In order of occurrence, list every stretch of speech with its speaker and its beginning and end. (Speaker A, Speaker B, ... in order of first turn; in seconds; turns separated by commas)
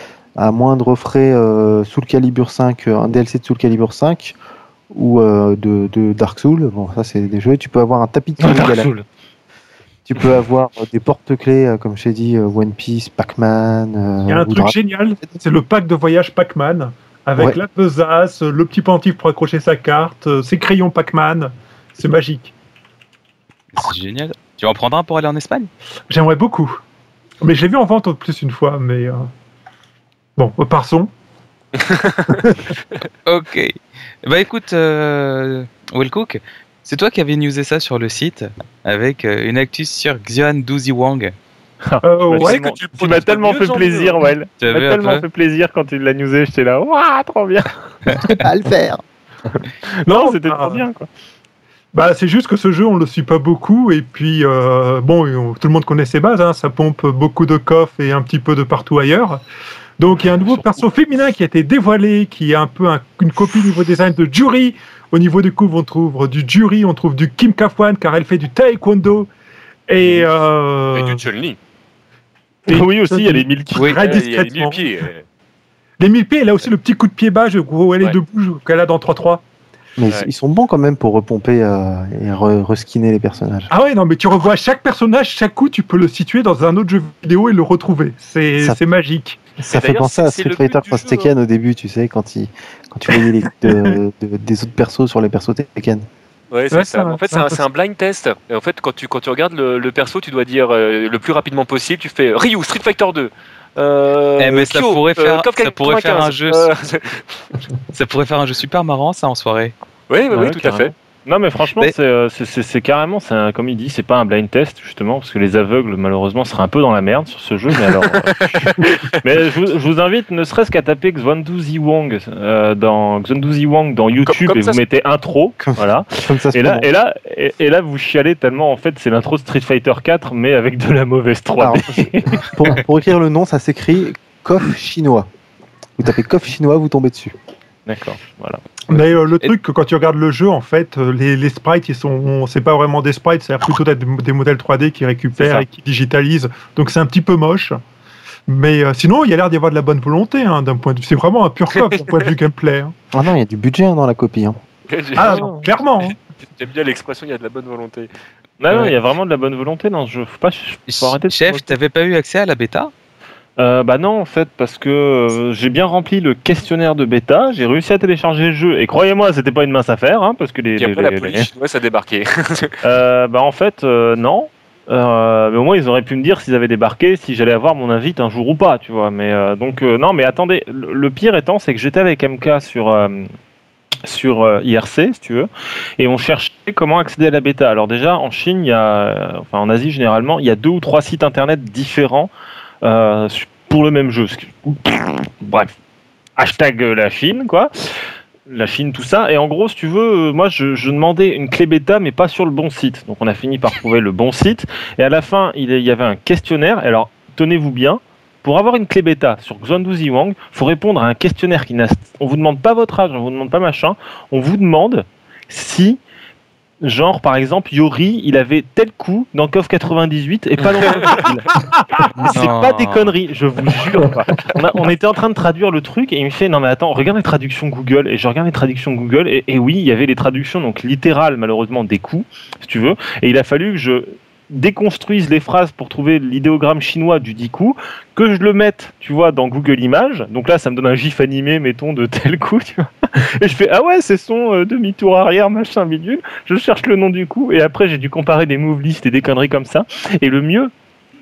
Speaker A: 0.4-4.3, Speaker A: 4.9-8.9, Speaker B: 8.4-9.1, Speaker A: 10.1-14.8, Speaker C: 14.3-22.5, Speaker D: 23.7-25.7, Speaker C: 26.1-26.8, Speaker C: 27.4-29.2, Speaker C: 30.4-31.1, Speaker E: 31.8-32.4, Speaker D: 33.3-41.3, Speaker B: 41.9-47.7, Speaker C: 42.0-44.2, Speaker D: 44.6-45.2, Speaker A: 48.2-49.0, Speaker B: 49.9-51.1, Speaker C: 50.1-50.8, Speaker C: 51.9-59.4, Speaker C: 60.0-69.3, Speaker C: 69.9-71.2, Speaker E: 70.9-71.6, Speaker B: 72.7-74.2, Speaker C: 72.7-74.8, Speaker E: 74.0-75.2, Speaker C: 76.0-79.4, Speaker A: 80.0-83.7, Speaker C: 83.7-89.4, Speaker A: 89.6-96.1, Speaker E: 89.7-91.3, Speaker E: 96.5-107.3, Speaker C: 96.7-97.6, Speaker D: 104.4-106.7, Speaker D: 107.9-109.7, Speaker E: 110.1-110.9, Speaker B: 110.3-132.5, Speaker E: 118.4-118.8, Speaker E: 124.4-124.8, Speaker A: 125.7-126.9, Speaker A: 131.5-135.3, Speaker A: 136.0-137.3, Speaker B: 137.9-138.6, Speaker C: 138.9-147.8, Speaker B: 145.4-145.7, Speaker C: 148.5-152.9, Speaker E: 151.8-152.3, Speaker A: 153.1-154.6, Speaker E: 154.9-155.5, Speaker C: 155.2-156.2, Speaker B: 155.3-155.6, Speaker E: 156.4-158.1, Speaker B: 158.6-161.7, Speaker D: 160.9-162.9, Speaker B: 163.6-171.5, Speaker E: 170.8-172.7, Speaker B: 172.8-183.3, Speaker B: 184.1-192.3, Speaker B: 192.8-195.7, Speaker B: 196.4-197.7, Speaker B: 198.5-216.0, Speaker B: 216.8-221.6, Speaker E: 220.8-221.2, Speaker C: 221.5-222.2, Speaker D: 222.2-223.1, Speaker B: 222.2-250.7